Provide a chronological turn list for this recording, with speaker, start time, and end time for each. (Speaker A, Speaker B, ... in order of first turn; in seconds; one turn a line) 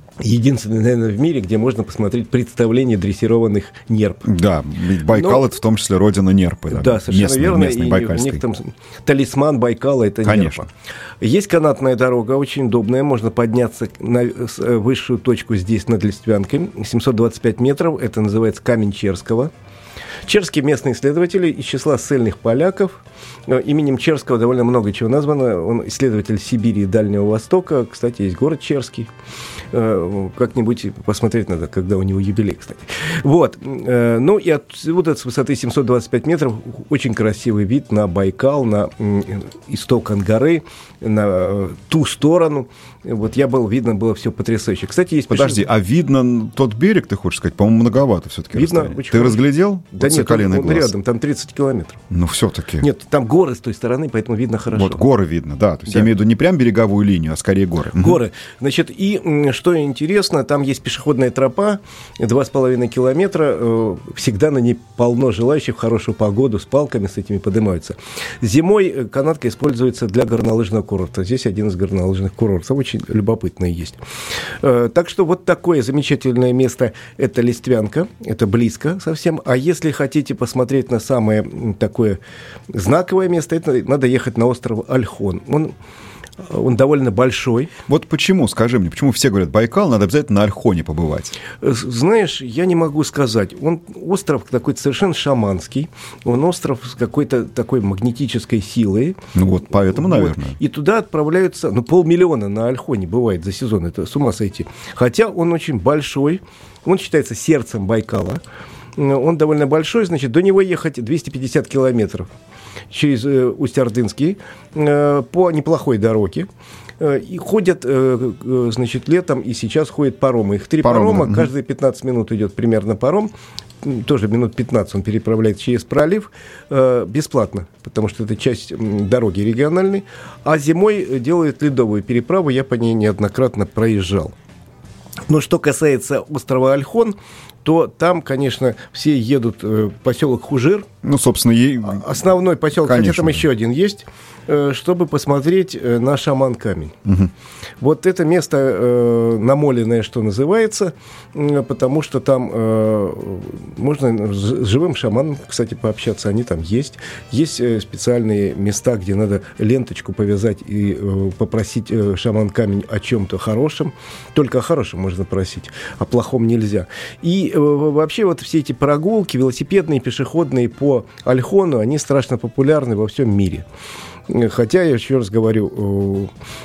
Speaker A: 0.2-4.3
Speaker B: 4.2-8.4
Speaker A: 5.1-5.5
Speaker A: 6.7-10.7
Speaker B: 10.2-10.7
Speaker A: 11.2-19.5
Speaker A: 20.2-29.1
Speaker A: 29.7-45.6
Speaker B: 45.3-50.9
Speaker A: 48.5-49.5
Speaker A: 50.0-52.0
Speaker B: 52.1-52.9
Speaker A: 52.8-55.0
Speaker B: 54.7-58.2
Speaker A: 58.0-74.0
Speaker A: 74.6-82.2
Speaker A: 82.7-85.7
Speaker A: 86.4-87.7
Speaker B: 87.9-91.3
Speaker A: 91.6-99.2
Speaker B: 99.3-100.6
Speaker A: 99.9-108.4
Speaker A: 109.0-112.3
Speaker A: 112.9-116.5
Speaker A: 117.0-123.3
Speaker B: 120.8-121.5
Speaker A: 123.8-134.3
Speaker A: 135.3-140.9
Speaker B: 141.0-142.2
Speaker A: 141.8-147.0
Speaker B: 142.8-143.4
Speaker B: 147.1-147.3
Speaker A: 147.8-173.7
Speaker A: 174.3-176.3